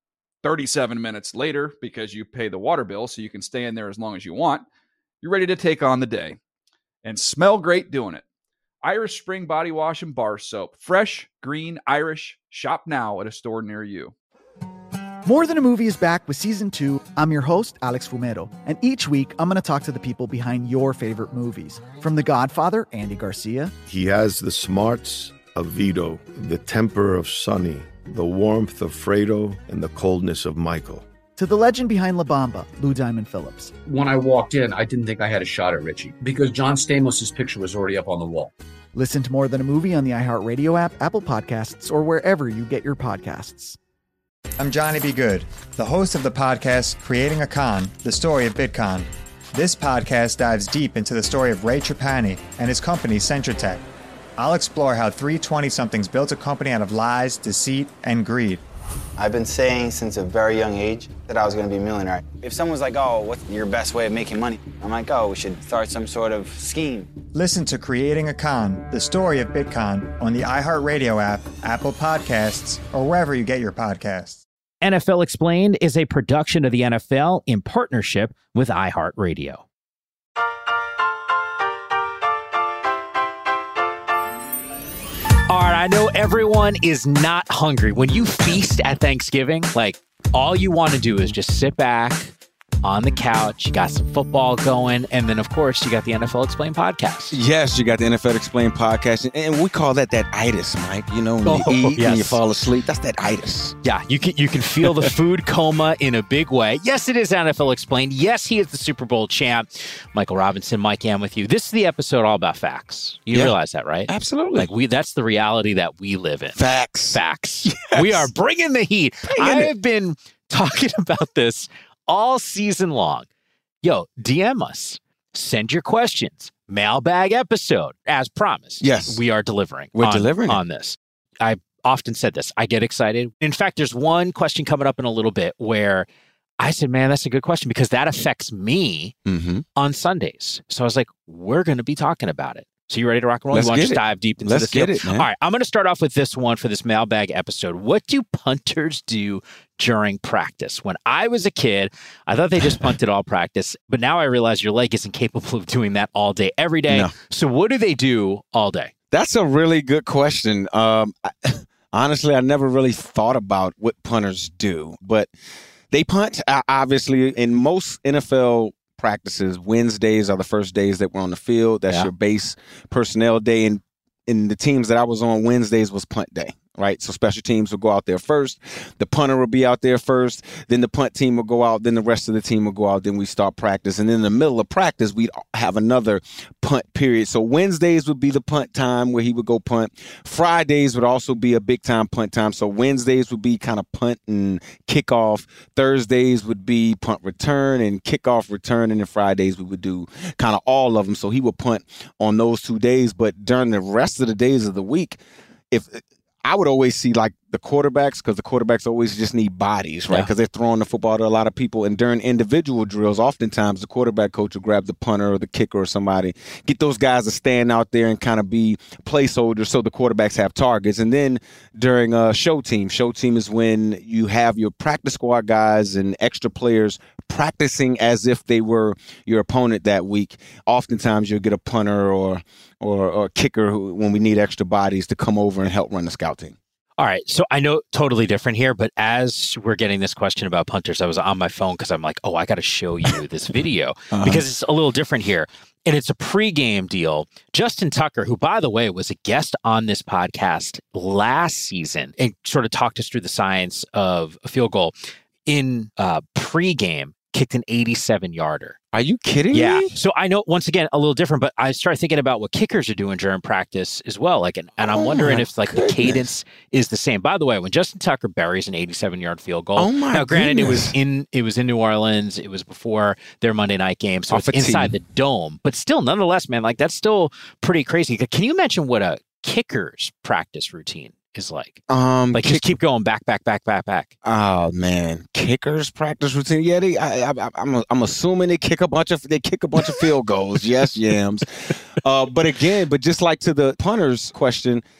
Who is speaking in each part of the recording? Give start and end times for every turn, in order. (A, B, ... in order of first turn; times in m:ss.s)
0:00.4-0:04.6 A
0:05.2-0:06.4 A
0:07.0-0:08.2 A
0:08.8-0:14.1 A
0:15.2-0:23.7 B
0:23.8-0:31.1 C
0:31.4-0:33.7 B
0:33.8-0:38.5 D
0:38.9-0:43.8 B
0:44.6-0:53.8 E
0:54.4-0:58.6 E
0:59.2-1:07.1 F
1:07.3-1:14.4 E
1:14.8-1:19.6 G
1:25.5-1:37.4 G
1:37.3-1:43.8 H
1:41.4-1:42.4 G
1:43.8-2:03.2 G
1:44.8-1:45.1 H
1:54.1-1:54.7 H
1:56.5-1:58.3 H
1:59.2-1:59.7 H
2:03.8-2:16.1 G
2:08.8-2:09.2 H
2:09.9-2:10.6 H
2:16.6-2:19.1 G
2:19.2-2:19.6 H
2:19.8-2:38.9 G
2:23.5-2:25.3 H
2:32.6-2:32.9 H
2:36.9-2:37.1 H
2:39.1-2:45.3 H
2:45.9-3:25.2 H
3:25.7-3:56.6 H
3:57.0-4:14.9 G
4:04.1-4:04.4 H
4:15.4-4:18.8 G
4:18.9-4:19.9 H
4:19.5-4:41.8 G
4:24.8-4:26.3 H
4:29.8-4:30.9 H
4:34.3-4:35.0 H
4:41.9-4:42.7 H
4:42.3-4:44.1 G
4:44.2-4:54.8 H